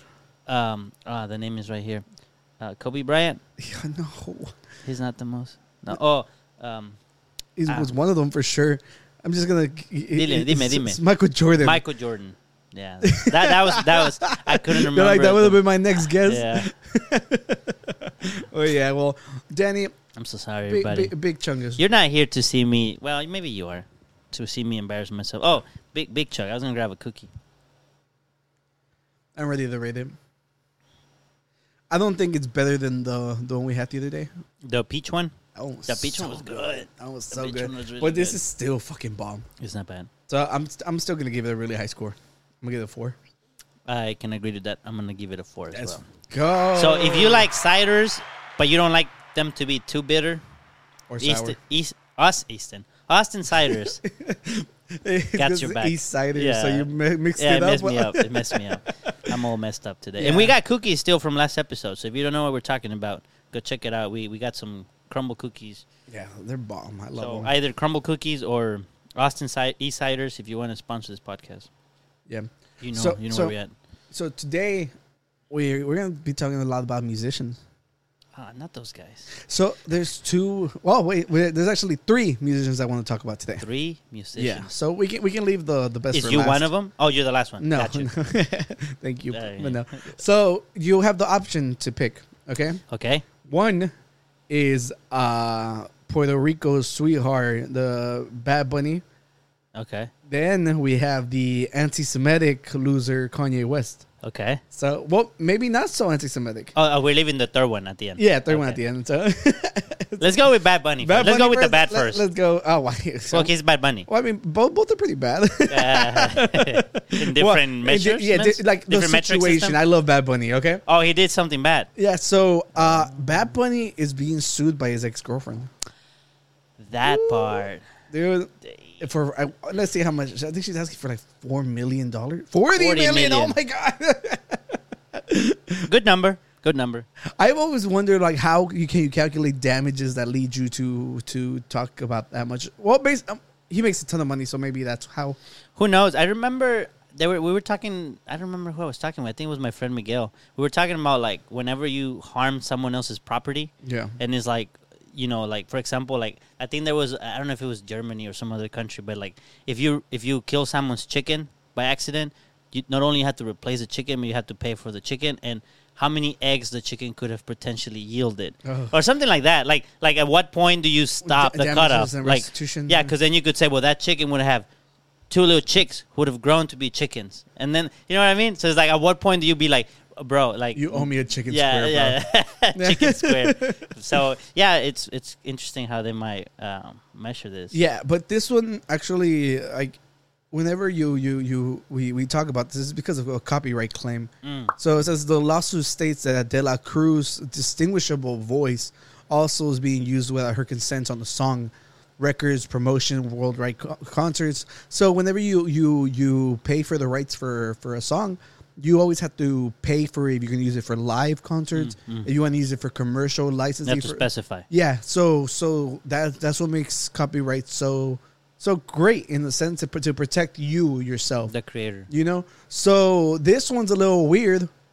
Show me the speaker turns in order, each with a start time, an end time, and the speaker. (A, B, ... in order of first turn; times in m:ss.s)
0:00.5-0:02.0 A
0:02.6-0:03.4 A
0:03.6-0:04.6 B
0:04.8-0:07.0 A
0:07.6-0:11.8 B
0:10.1-0:11.0 A
0:11.6-0:16.7 A
0:13.0-0:19.9 B
0:20.2-0:21.1 A
0:20.7-0:21.8 B
0:21.8-0:27.3 A
0:29.4-0:30.2 B
0:31.9-0:34.3 B
0:34.6-0:35.4 A
0:35.6-0:39.5 B
0:35.9-0:38.4 A
0:39.6-0:40.1 A
0:40.3-0:43.2 B
0:43.9-0:46.0 A
0:45.7-0:47.5 B
0:46.8-0:50.4 A
0:51.1-0:51.6 B
0:51.2-0:54.0 A
0:53.6-0:59.3 B
0:55.4-1:05.8 A
1:00.2-1:00.6 B
1:06.1-1:07.5 B
1:07.2-1:11.7 A
1:12.3-1:13.6 B
1:12.8-1:13.7 A
1:14.1-1:14.9 B
1:15.5-1:17.6 B
1:18.4-1:19.3 A
1:19.4-1:23.7 B
1:23.6-1:24.7 A
1:24.4-1:26.7 B
1:26.1-1:28.1 A
1:27.6-1:32.8 B
1:29.3-1:30.0 A
1:32.9-1:33.2 A
1:33.4-1:33.9 B
1:34.5-1:39.0 B
1:39.8-1:40.1 A
1:40.3-1:44.0 B
1:44.2-1:44.6 A
1:44.7-1:46.7 B
1:46.8-1:48.8 A
1:48.2-1:50.4 B
1:50.2-1:52.2 A
1:51.0-1:53.5 B
1:53.3-1:54.1 A
1:54.1-2:00.8 B
1:55.7-1:59.8 A
2:00.9-2:01.9 A
2:02.0-2:05.7 B
2:02.8-2:03.2 A
2:06.8-2:07.8 A
2:07.0-2:15.9 B
2:12.7-2:13.6 A
2:15.9-2:17.1 A
2:17.4-2:25.4 B
2:25.8-2:54.7 A
2:33.8-2:34.2 B
2:48.6-2:49.0 B
2:51.2-2:53.1 B
2:55.3-3:07.8 A
3:00.8-3:02.2 B
3:02.7-3:04.2 B
3:07.7-3:10.0 B
3:10.5-3:41.5 B
3:14.4-3:14.8 A
3:31.7-3:32.3 A
3:33.8-3:34.7 A
3:41.5-3:42.1 A
3:42.1-3:44.7 B